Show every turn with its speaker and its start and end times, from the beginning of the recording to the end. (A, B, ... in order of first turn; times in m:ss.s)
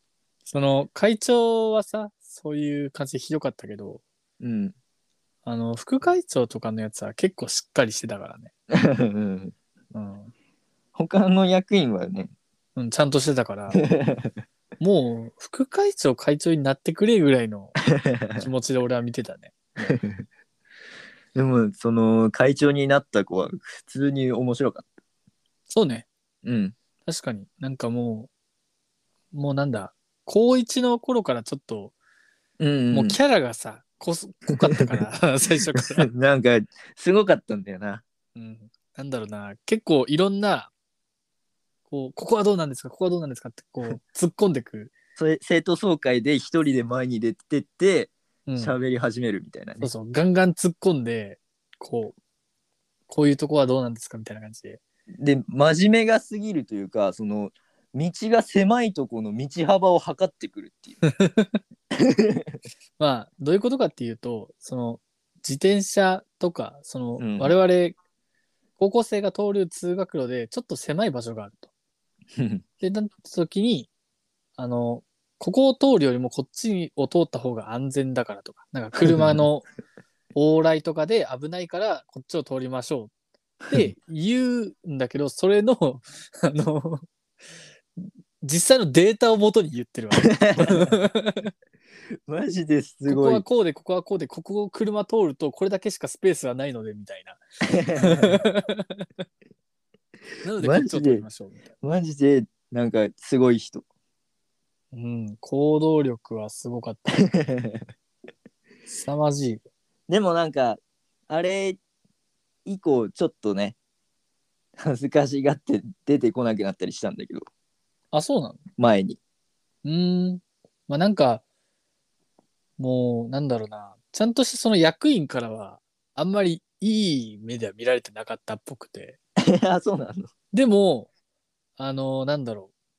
0:00.5-0:04.0 A
0:04.4-0:04.8 B
0:05.4-0:08.5 A
0:08.7-0:09.6 B
0:09.9-0:10.3 A
0:11.0-0:12.3 B
0:12.8-0:13.8 A
0:13.7-0:14.3 B
0:14.8-0:17.8 A
0:18.0-0:18.4 B
0:18.4-0:20.0 A
0:19.9-0:20.2 B
0:21.4-0:24.9 B
0:25.7-0:26.1 A
0:26.4-0:26.8 B
0:27.0-0:28.3 A
0:29.3-0:32.0 A
0:32.6-0:33.2 B
0:32.9-0:36.1 A
0:35.8-0:38.0 B
0:38.4-0:40.7 A
0:41.9-0:45.0 A
0:45.2-0:49.9 B
0:48.5-0:48.8 A
0:49.8-0:52.2 A
0:53.1-0:54.8 A
0:55.2-1:01.0 B
1:01.0-1:01.6 A
1:02.0-1:02.6 B
1:03.0-1:08.0 A
1:07.2-1:07.6 B
1:08.8-1:11.7 A
1:12.4-1:12.6 B
1:12.8-1:13.9 A
1:14.6-1:19.7 A
1:19.0-1:19.4 B
1:20.4-1:23.1 A
1:23.7-1:27.1 A
1:28.0-1:31.5 A
1:30.3-1:31.0 B
1:32.3-1:33.4 B
1:33.1-1:37.4 A
1:37.6-1:38.4 B
1:38.0-1:39.1 A
1:40.4-1:41.7 A
1:40.6-1:41.2 B
1:41.8-1:43.8 B
1:44.9-1:47.2 A
1:47.3-1:47.8 B
1:48.9-1:49.6 A
1:50.1-1:51.8 B
1:52.7-1:53.8 B
1:54.8-1:57.5 B
1:58.1-1:58.6 A
1:58.8-1:59.2 B
1:59.8-2:01.4 A
2:02.8-2:09.2 A
2:09.4-2:10.3 B
2:10.5-2:11.1 A
2:11.8-2:12.7 A